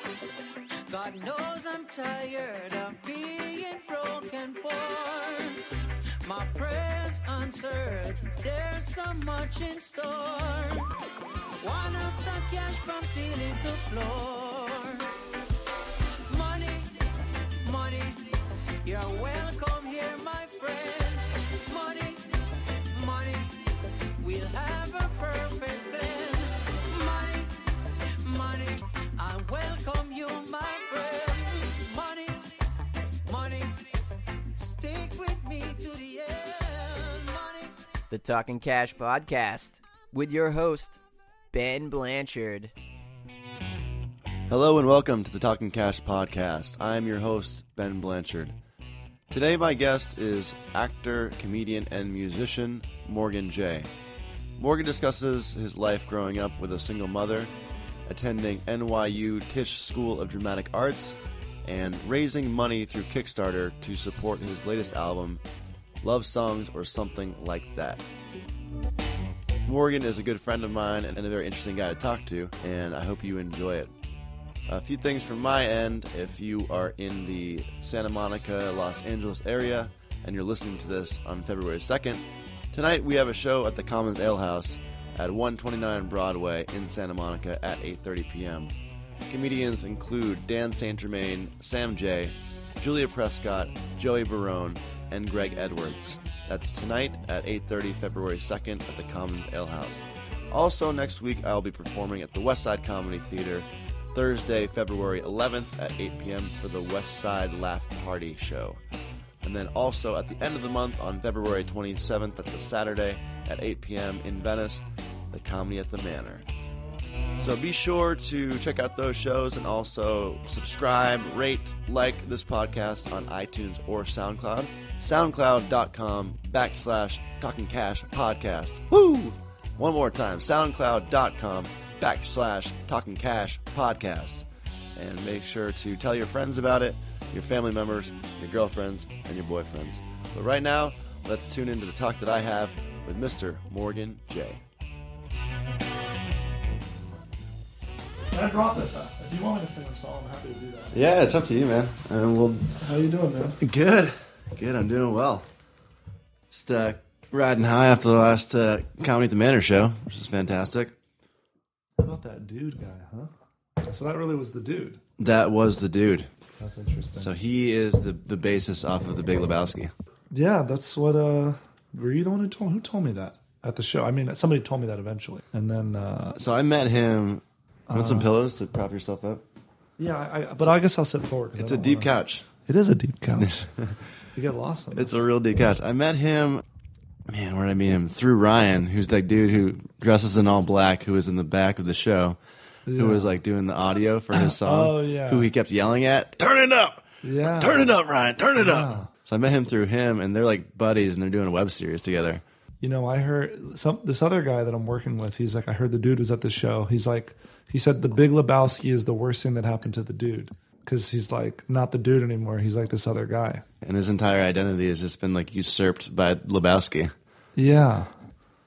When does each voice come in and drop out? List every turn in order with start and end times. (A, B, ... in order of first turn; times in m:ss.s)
0:00.9-0:05.7 A
0:06.2-0:11.0 A
0:11.6-0:15.1 A
0:16.3-0:17.0 A
0:17.6-0:32.6 A
0:33.2-0:37.7 A
0:38.1-0:41.0 B
0:41.5-0:42.7 B
0:44.5-0:48.6 C
0:49.3-0:53.9 C
0:54.6-0:57.5 C
0:58.1-1:05.4 C
1:06.0-1:08.0 C
1:09.6-1:13.9 C
1:14.7-1:28.7 C
1:29.3-1:48.8 C
1:49.4-1:56.5 C
1:57.4-2:24.6 C
2:28.3-2:31.0 D
2:30.9-2:32.8 C
2:32.8-2:33.6 D
2:33.6-2:35.5 C
2:36.5-2:40.9 C
2:42.0-2:45.0 D
2:45.2-2:46.3 C
2:46.6-2:47.3 D
2:47.2-2:49.9 C
2:50.3-2:56.4 D
2:56.4-2:59.4 C
2:57.9-2:58.3 D
3:00.0-3:02.1 D
3:01.6-3:02.5 C
3:02.6-3:03.7 D
3:03.4-3:03.8 C
3:04.3-3:05.2 D
3:04.9-3:06.6 C
3:07.3-3:12.4 C
3:12.9-3:13.4 D
3:13.0-3:22.4 C
3:14.3-3:15.5 D
3:17.2-3:17.9 D
3:18.6-3:19.1 D
3:22.8-3:33.6 D
3:33.8-3:37.1 C
3:37.6-3:38.1 D